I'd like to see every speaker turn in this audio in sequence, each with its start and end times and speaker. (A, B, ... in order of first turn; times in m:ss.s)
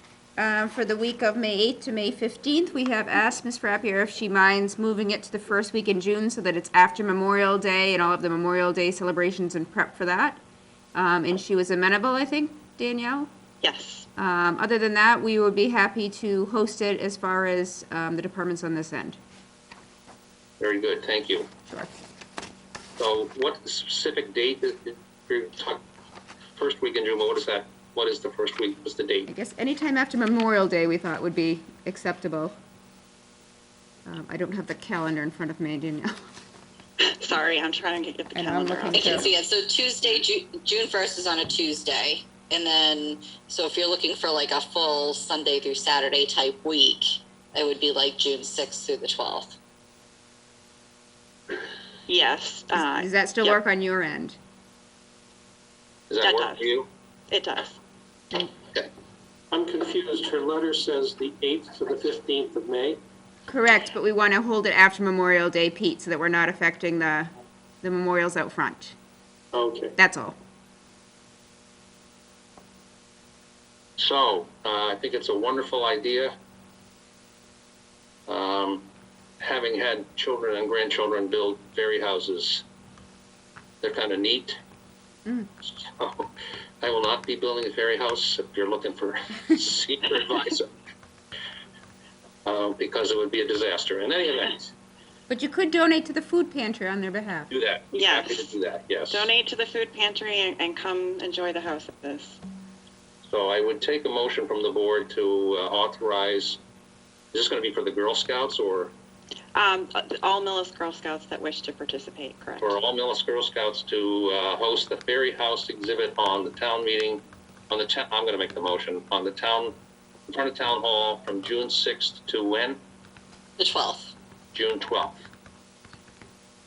0:00.4-0:10.4 A
0:10.9-0:13.3 A
0:13.6-0:14.1 B
0:14.2-0:19.2 A
0:20.6-0:21.5 C
0:23.0-0:25.8 C
0:26.6-0:29.3 C
0:29.3-0:32.6 A
0:34.1-0:36.1 A
0:37.0-0:39.3 B
0:38.4-0:39.3 A
0:38.9-0:49.6 D
0:52.1-0:53.6 B
0:52.7-0:54.4 A
0:56.1-0:56.9 C
0:56.2-0:56.7 B
0:57.3-0:57.8 B
0:59.5-1:03.0 E
1:03.5-1:07.3 A
1:07.8-1:09.0 A
1:09.5-1:10.0 E
1:10.0-1:10.4 A
1:14.0-1:16.3 C
1:18.3-1:18.8 C
1:19.4-1:22.6 C
1:23.8-1:24.6 C
1:25.6-1:30.7 C
1:32.4-1:34.7 C
1:35.3-1:37.5 A
1:37.5-1:39.3 C
1:37.9-1:38.6 B
1:39.1-1:42.4 B
1:43.2-1:46.6 C
1:47.3-1:48.9 C
1:49.6-1:52.8 B
1:52.6-1:59.8 C
2:00.3-2:02.8 C
2:03.6-2:04.1 D
2:04.5-2:05.2 C